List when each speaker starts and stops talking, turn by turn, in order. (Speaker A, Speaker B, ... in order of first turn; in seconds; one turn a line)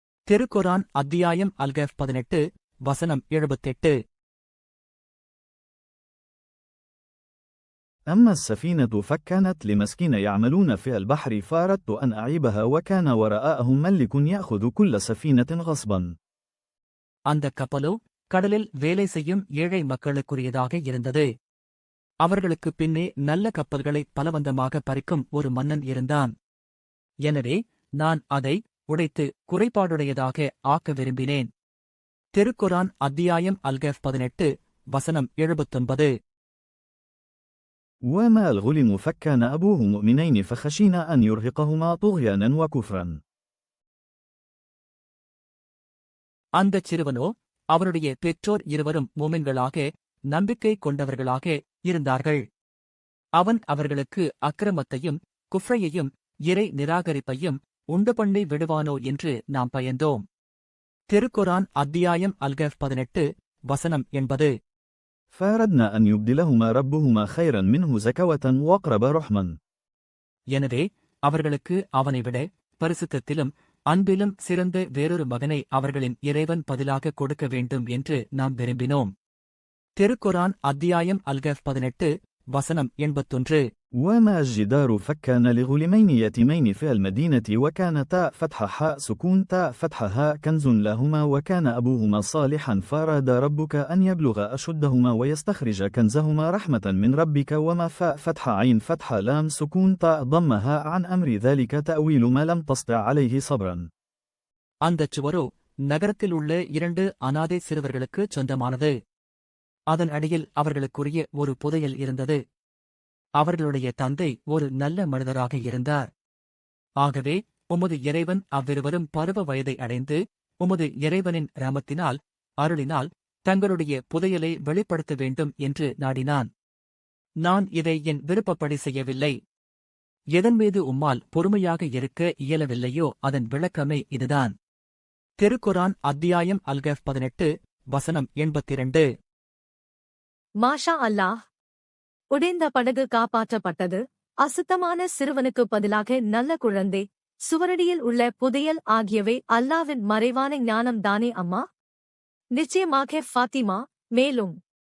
Speaker A: 0.3-4.0
Speaker B: 8.1-16.1
Speaker A: 17.3-21.3
Speaker A: 22.2-26.3
Speaker A: 27.3-31.5
Speaker A: 32.4-36.1
Speaker B: 38.1-43.2
Speaker A: 46.6-52.4
Speaker A: 53.4-60.2
Speaker A: 61.1-64.5
Speaker B: 65.3-69.5
Speaker A: 70.6-79.1
Speaker A: 80.0-83.6
Speaker B: 84.0-103.9
Speaker A: 104.9-108.9
Speaker A: 109.9-112.4
Speaker A: 113.4-116.1
Speaker A: 117.0-126.5
Speaker A: 127.5-129.4
Speaker A: 130.4-134.5
Speaker A: 135.4-139.1
Speaker C: 140.6-141.3
Speaker C: 142.3-151.6
Speaker C: 152.6-154.6